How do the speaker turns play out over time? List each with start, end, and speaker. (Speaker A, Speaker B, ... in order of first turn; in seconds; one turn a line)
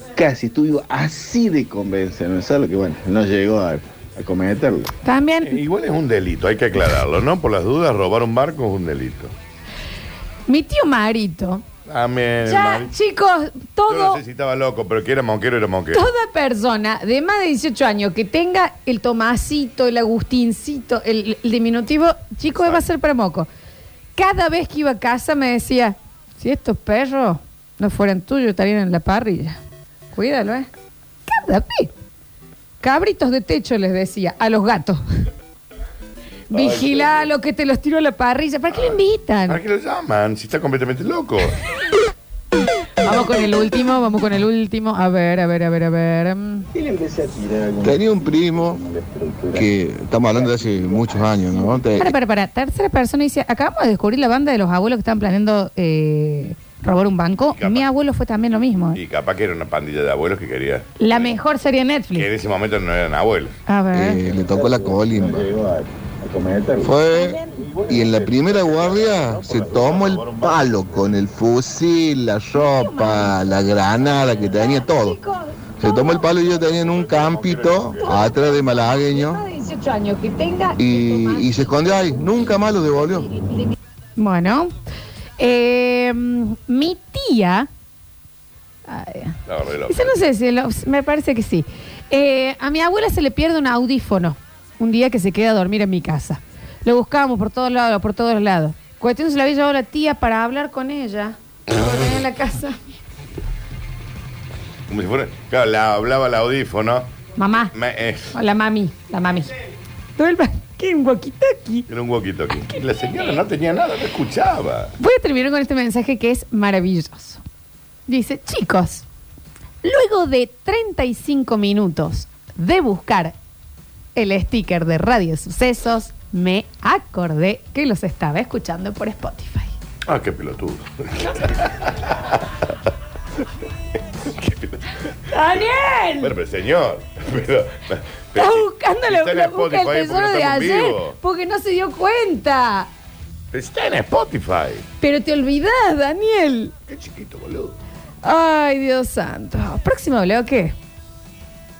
Speaker A: 0.1-4.9
Speaker B: 5.0-5.6
Speaker C: 5.4-9.3
Speaker B: 10.5-11.6
Speaker C: 11.8-12.9
Speaker B: 12.4-14.2
Speaker C: 13.9-16.0
Speaker B: 15.9-23.5
Speaker C: 22.6-22.8
Speaker B: 24.1-29.6
Speaker B: 30.1-30.7
Speaker B: 31.3-31.9
Speaker B: 32.8-35.0
Speaker B: 36.5-39.6
Speaker C: 36.5-37.3
Speaker C: 39.5-41.6
Speaker B: 43.0-46.7
Speaker A: 46.7-51.8
Speaker D: 47.8-48.8
Speaker D: 49.5-52.1
Speaker B: 52.0-59.0
Speaker C: 57.5-57.9
Speaker C: 58.9-61.4
Speaker B: 61.0-62.3
Speaker C: 62.1-63.5
Speaker B: 63.7-64.2
Speaker D: 63.9-65.4
Speaker A: 64.3-66.9
Speaker D: 66.8-75.2
Speaker A: 67.8-69.1
Speaker C: 69.7-70.4
Speaker B: 72.5-73.6
Speaker B: 74.3-76.3
Speaker D: 75.8-79.4
Speaker C: 77.4-78.1
Speaker B: 78.0-82.1
Speaker D: 80.8-83.3
Speaker B: 84.2-84.7
Speaker B: 85.4-87.7
Speaker B: 88.9-102.9
Speaker C: 89.5-90.2
Speaker C: 104.9-107.1
Speaker B: 107.4-107.7
Speaker C: 107.7-108.3
Speaker B: 108.3-109.5
Speaker B: 110.2-111.8
Speaker C: 111.9-114.9
Speaker B: 115.0-117.4
Speaker B: 118.1-119.0
Speaker B: 119.8-123.3
Speaker B: 124.2-129.7
Speaker C: 130.1-132.4
Speaker C: 134.4-134.8
Speaker B: 135.3-136.3
Speaker C: 136.2-141.2
Speaker B: 138.3-142.9
Speaker C: 143.5-144.8
Speaker B: 145.0-146.7
Speaker C: 146.9-147.8
Speaker B: 148.2-150.7